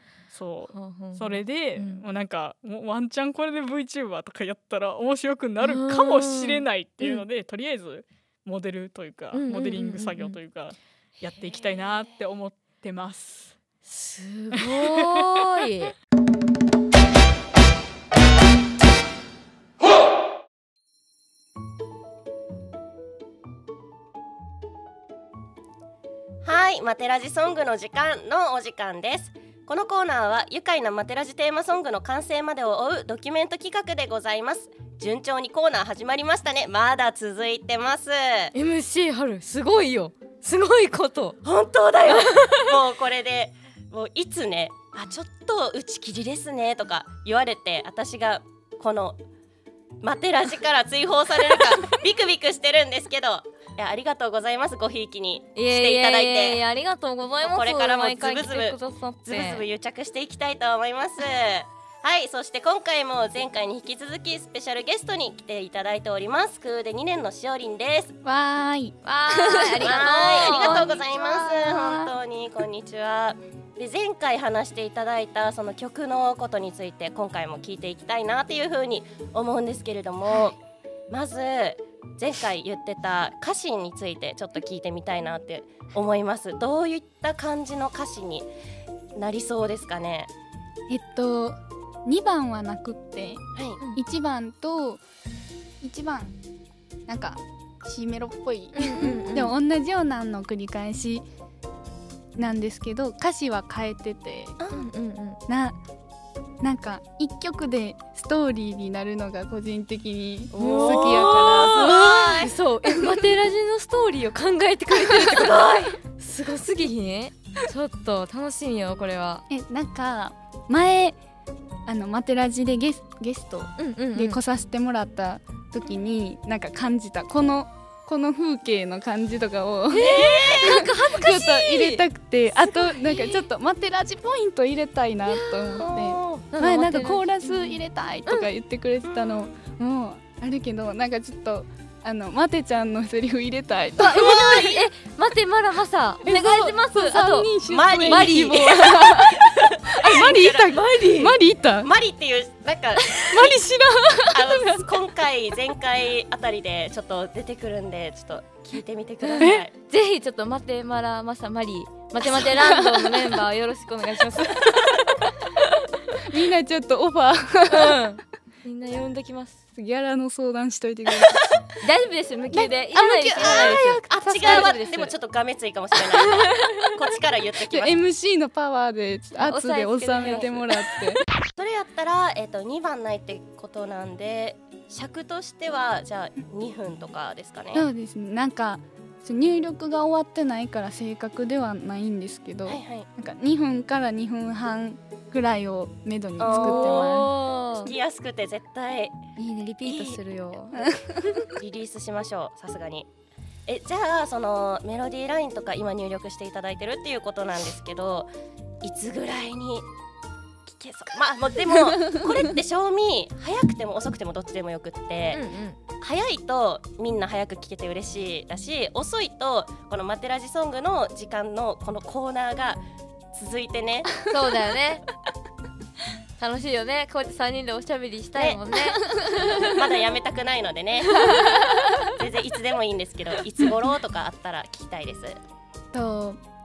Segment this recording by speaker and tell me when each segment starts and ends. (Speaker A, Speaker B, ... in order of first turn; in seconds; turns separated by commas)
Speaker A: 0.3-13.6, Speaker B: 0.7-2.0, Speaker B: 5.6-7.2, Speaker B: 9.3-10.4, Speaker B: 13.8-15.9, Speaker A: 14.5-15.2, Speaker C: 26.4-38.5, Speaker B: 38.5-41.4, Speaker C: 41.4-49.2, Speaker B: 42.0-42.7, Speaker C: 50.0-56.6, Speaker B: 55.5-59.6, Speaker C: 57.4-68.1, Speaker D: 68.2-72.1, Speaker B: 69.0-71.7, Speaker C: 69.8-80.6, Speaker C: 81.1-88.5, Speaker C: 89.1-90.3, Speaker D: 90.9-95.0, Speaker C: 93.5-93.8, Speaker D: 95.8-96.4, Speaker D: 97.1-101.2, Speaker B: 98.7-99.5, Speaker D: 102.4-104.6, Speaker C: 104.6-104.8, Speaker B: 104.7-105.4, Speaker D: 105.5-105.8, Speaker D: 106.6-111.8, Speaker B: 110.5-119.4, Speaker C: 110.6-112.5, Speaker C: 114.9-116.0, Speaker D: 119.5-121.2, Speaker D: 121.8-144.4, Speaker B: 123.8-124.4, Speaker B: 129.9-133.5, Speaker C: 130.0-130.8, Speaker B: 135.3-138.5, Speaker C: 136.1-136.4, Speaker B: 144.0-149.3, Speaker C: 144.1-144.8, Speaker D: 146.2-149.3, Speaker C: 147.6-148.7, Speaker C: 149.4-151.2, Speaker D: 150.0-151.9, Speaker B: 150.7-151.3, Speaker C: 151.8-153.6, Speaker D: 153.3-154.1, Speaker C: 154.3-159.7, Speaker B: 159.2-164.7, Speaker D: 162.6-163.1, Speaker D: 166.3-168.0, Speaker B: 167.7-169.6, Speaker D: 169.8-171.5, Speaker B: 171.8-175.1, Speaker D: 172.5-174.8, Speaker C: 173.3-178.0, Speaker B: 176.1-176.9, Speaker D: 177.7-181.2, Speaker B: 179.3-180.8, Speaker C: 180.2-180.5, Speaker C: 181.6-187.9, Speaker D: 187.7-197.4, Speaker C: 192.7-193.1, Speaker C: 196.4-197.1, Speaker B: 196.5-197.9, Speaker C: 197.7-199.2, Speaker D: 199.4-200.1, Speaker B: 199.8-201.4, Speaker C: 199.8-200.2, Speaker D: 200.7-201.5, Speaker C: 201.6-203.1, Speaker C: 203.7-209.9, Speaker C: 210.7-215.4, Speaker B: 215.3-215.8, Speaker C: 216.0-224.1, Speaker B: 224.3-225.0, Speaker B: 226.4-229.8, Speaker C: 228.3-235.4, Speaker B: 231.1-231.6, Speaker D: 235.9-236.4